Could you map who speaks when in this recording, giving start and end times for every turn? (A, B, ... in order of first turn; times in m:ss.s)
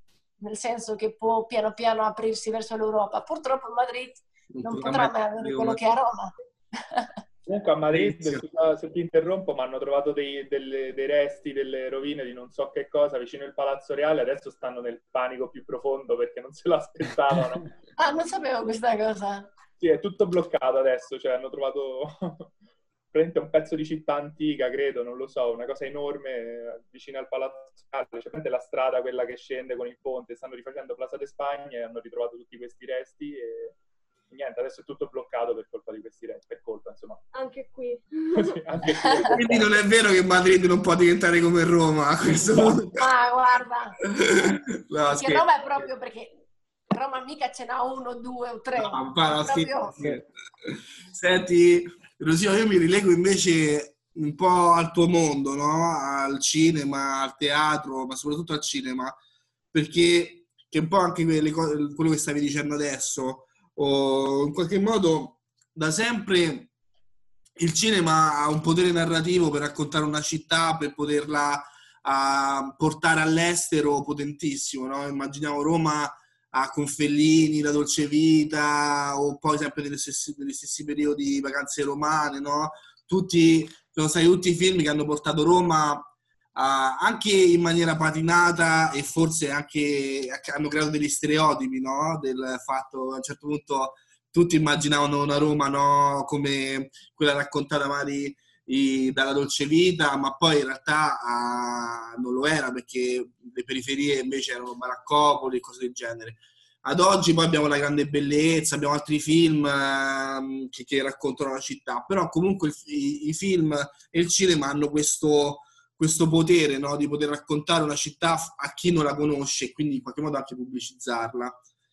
0:00.4-0:07.1 A
0:04.5-0:05.8 B
0:07.4-0:17.7 C
0:07.9-0:08.4 B
0:18.0-0:19.5 A
0:19.8-0:22.5 C
0:23.1-0:33.8 C
0:34.3-0:37.2 C
0:37.3-0:39.4 D
0:38.4-0:39.4 C
0:39.3-0:43.0 B
0:42.9-0:44.0 A
0:44.2-0:45.5 B
0:45.1-0:50.2 A
0:48.8-0:59.1 B
0:59.7-1:06.7 B
1:07.6-2:01.6 B